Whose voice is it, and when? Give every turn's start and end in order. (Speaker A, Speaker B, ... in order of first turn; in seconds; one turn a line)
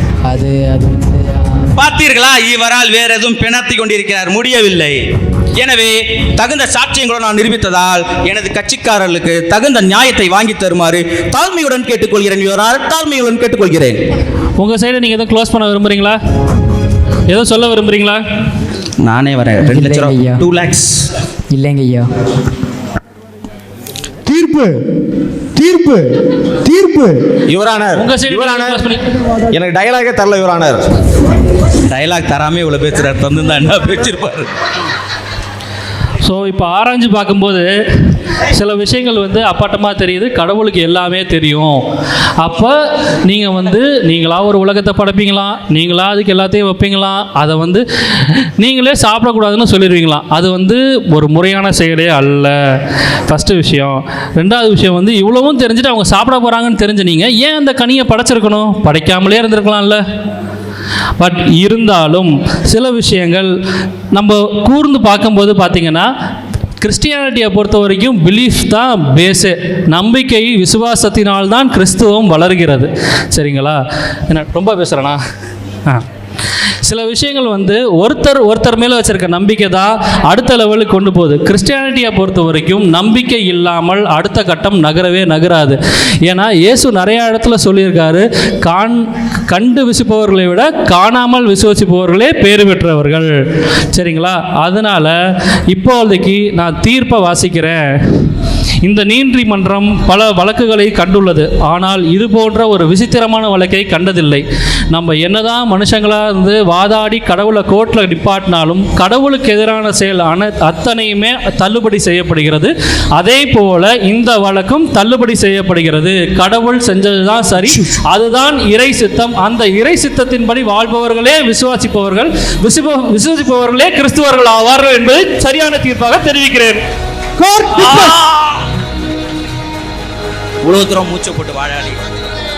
Speaker A: 0.2-1.6
Speaker B: 1.8-5.0
Speaker B: 5.6-14.0
Speaker C: 14.6-16.2
Speaker C: 17.3-18.2
Speaker B: 19.0-21.0
Speaker A: 19.6-20.4
Speaker A: 21.5-22.1
Speaker D: 24.2-24.7
Speaker D: 25.6-26.0
Speaker D: 26.6-27.1
Speaker E: 27.5-28.8
Speaker C: 27.9-29.0
Speaker E: 29.5-30.8
Speaker B: 31.9-34.5
Speaker C: 36.2-41.8
Speaker C: 42.4-52.5
Speaker C: 53.3-60.0
Speaker C: 61.2-63.5
Speaker C: 64.1-66.1
Speaker C: 66.8-73.8
Speaker C: 74.3-75.2
Speaker C: 76.8-93.3
Speaker C: 93.9-95.1
Speaker C: 95.7-98.2
Speaker C: 98.8-126.8
Speaker D: 127.4-128.2
Speaker C: 127.7-128.1
Speaker B: 128.2-128.6
Speaker B: 130.6-132.0